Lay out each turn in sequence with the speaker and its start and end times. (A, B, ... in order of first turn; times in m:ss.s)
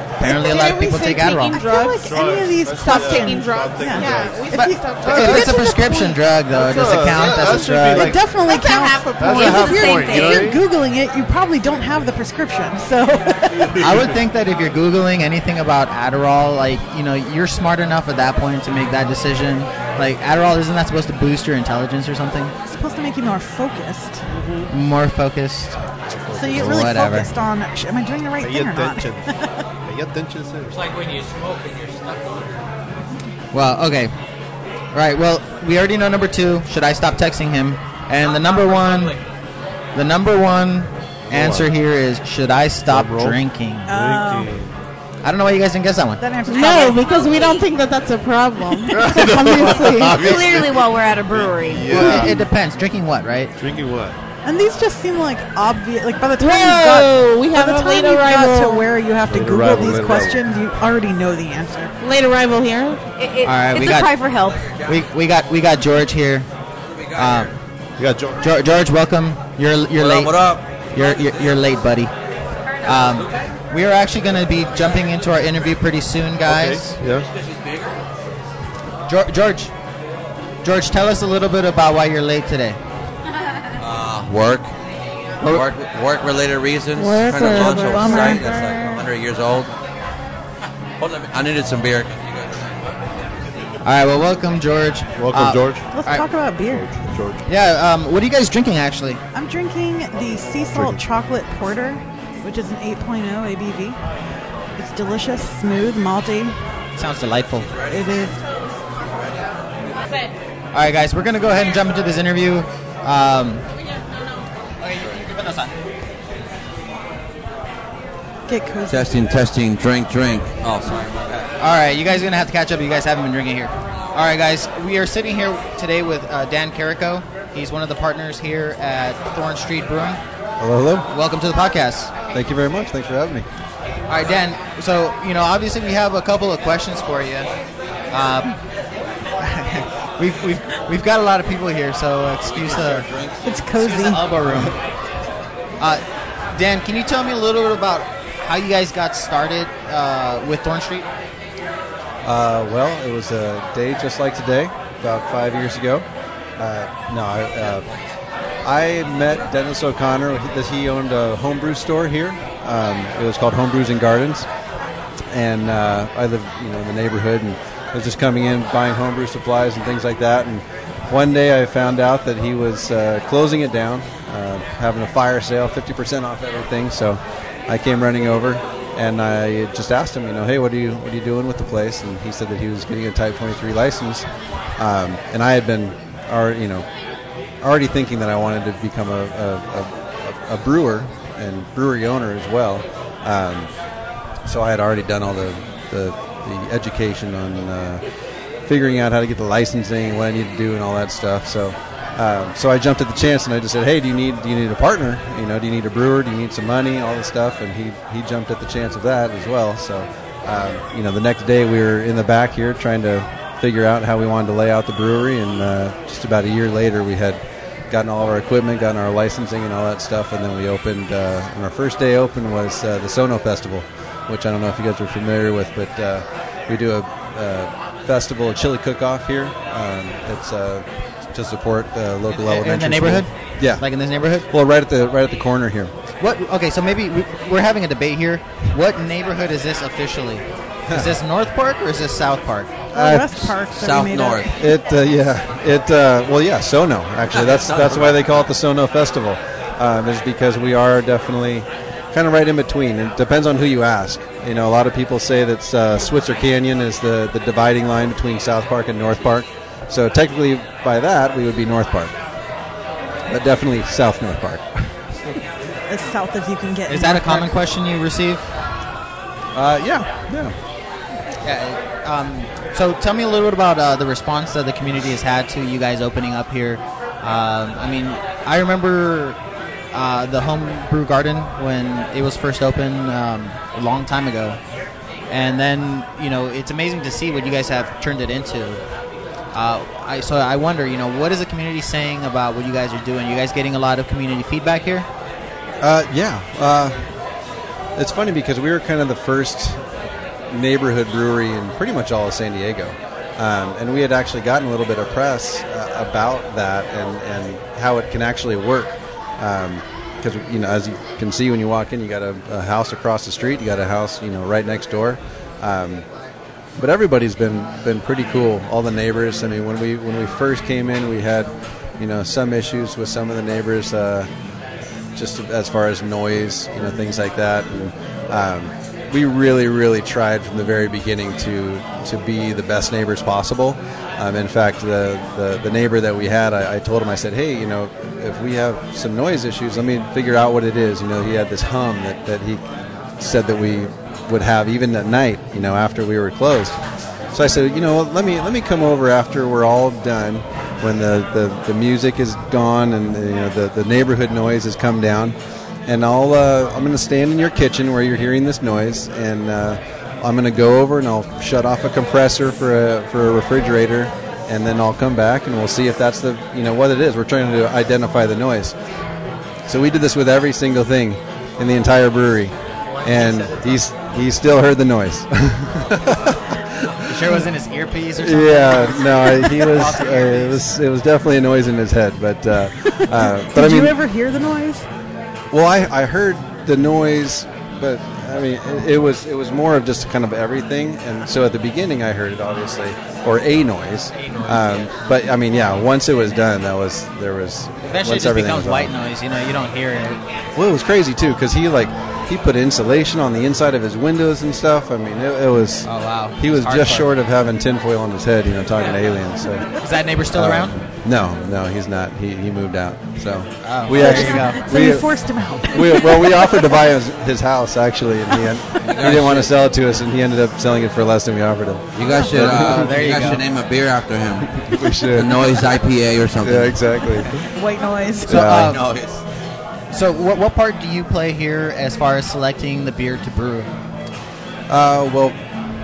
0:00.2-0:01.6 A
0:00.2-0:05.6 B
0:01.5-0:06.2 C
0:02.0-0:05.6 D
0:04.5-0:08.2 A
0:06.5-0:08.2 D
0:07.9-0:13.8 C
0:08.4-0:10.6 E
0:09.2-0:10.6 D
0:13.6-0:14.0 D
0:13.7-0:22.5 A
0:22.6-0:24.2 C
0:24.3-0:24.7 D
0:24.7-0:25.8 A
0:26.1-0:26.9 D
0:26.3-0:29.5 C
0:26.5-0:27.3 A
0:28.4-0:30.8 D
0:30.7-0:32.6 F
0:33.5-0:34.1 A
0:34.9-0:39.2 A
0:38.2-0:39.2 F
0:39.9-0:43.9 A
0:41.3-0:41.7 D
0:42.8-0:44.7 D
0:43.9-0:44.5 C
0:45.2-0:46.2 A
0:46.2-0:47.0 C
0:46.5-0:50.2 B
0:46.6-0:47.6 E
0:48.9-0:52.4 D
0:49.3-0:52.2 E
0:51.8-0:53.5 A
0:53.6-0:54.2 D
0:54.4-1:01.9 C
0:56.4-0:58.9 B
0:59.3-1:00.4 D
1:02.0-1:03.0 B
1:03.2-1:04.7 E
1:03.4-1:04.1 A
1:04.6-1:05.0 G
1:04.8-1:06.5 A
1:06.9-1:07.5 G
1:07.2-1:07.5 A
1:08.0-1:08.4 D
1:08.4-1:12.1 A
1:09.9-1:11.6 G
1:12.8-1:17.0 A
1:13.0-1:13.5 G
1:16.4-1:17.3 D
1:17.0-1:18.0 G
1:19.1-1:19.7 A
1:20.6-1:22.8 A
1:23.8-1:24.7 G
1:25.4-1:29.7 G
1:27.0-1:28.5 B
1:27.3-1:29.0 C
1:31.0-1:33.0 G
1:33.8-1:36.2 A
1:35.2-1:35.8 D
1:35.9-1:36.9 C
1:36.6-1:37.4 D
1:37.4-1:39.2 A
1:39.3-1:44.0 C
1:40.7-1:41.0 D
1:44.8-1:46.6 C
1:47.0-1:47.7 A
1:47.7-1:48.1 G
1:47.9-1:48.4 C
1:49.0-1:49.4 G
1:50.7-1:53.7 A
1:54.8-1:55.7 A
1:58.5-1:59.1 C
1:58.9-2:01.5 G
2:01.6-2:10.2 A
2:10.6-2:11.0 H
2:11.1-2:12.1 A
2:12.3-2:13.4 H
2:14.1-2:17.5 A
2:18.1-2:18.5 A
2:19.4-2:23.1 A
2:22.4-2:23.5 G
2:23.4-2:24.2 C
2:23.7-2:24.8 A
2:25.8-2:31.1 A
2:32.2-2:36.0 H
2:36.6-2:37.8 H
2:38.6-2:44.5 H
2:45.3-3:04.2 H
3:04.8-3:06.9 H
3:07.6-3:13.7 H
3:14.4-3:18.0 H
3:18.7-3:53.8 H
3:52.3-3:54.5 A
3:54.5-3:55.9 H
3:56.2-4:02.8 A
4:02.9-4:04.6 C
4:02.9-4:03.5 H
4:03.7-4:04.6 G
4:04.5-4:22.1 H
4:07.3-4:08.4 G
4:23.3-4:24.9 H
4:25.9-4:27.5 C
4:26.9-4:28.5 A
4:29.5-4:30.5 H
4:31.4-4:39.4 A
4:39.9-4:44.6 A
4:45.3-4:48.8 A
4:49.5-4:55.1 A
4:55.8-4:57.0 H
4:58.0-4:59.8 H
5:00.5-5:16.0 H
5:16.8-5:24.3 H
5:25.1-5:42.6 H
5:43.2-5:46.8 H
5:47.3-5:55.4 H
5:55.9-6:08.7 H
6:09.7-6:17.1 H
6:13.1-6:13.4 A
6:17.1-6:20.7 A
6:18.2-6:23.9 H
6:22.9-6:24.8 C
6:25.5-6:38.9 H
6:34.2-6:34.8 A
6:37.8-6:40.2 A
6:40.6-6:49.7 H
6:45.8-6:47.1 A
6:49.7-6:50.7 A
6:50.3-6:55.1 H
6:53.6-6:54.6 A
6:53.9-6:56.5 C
6:55.7-7:03.4 H
6:58.8-6:59.6 G
7:01.9-7:06.8 G
7:02.2-7:03.4 A
7:04.6-7:05.6 H
7:06.4-7:07.4 H
7:07.4-7:08.4 C
7:08.2-7:08.8 H
7:08.3-7:08.8 A
7:08.4-7:09.2 G
7:09.9-7:13.7 A
7:14.7-7:15.4 H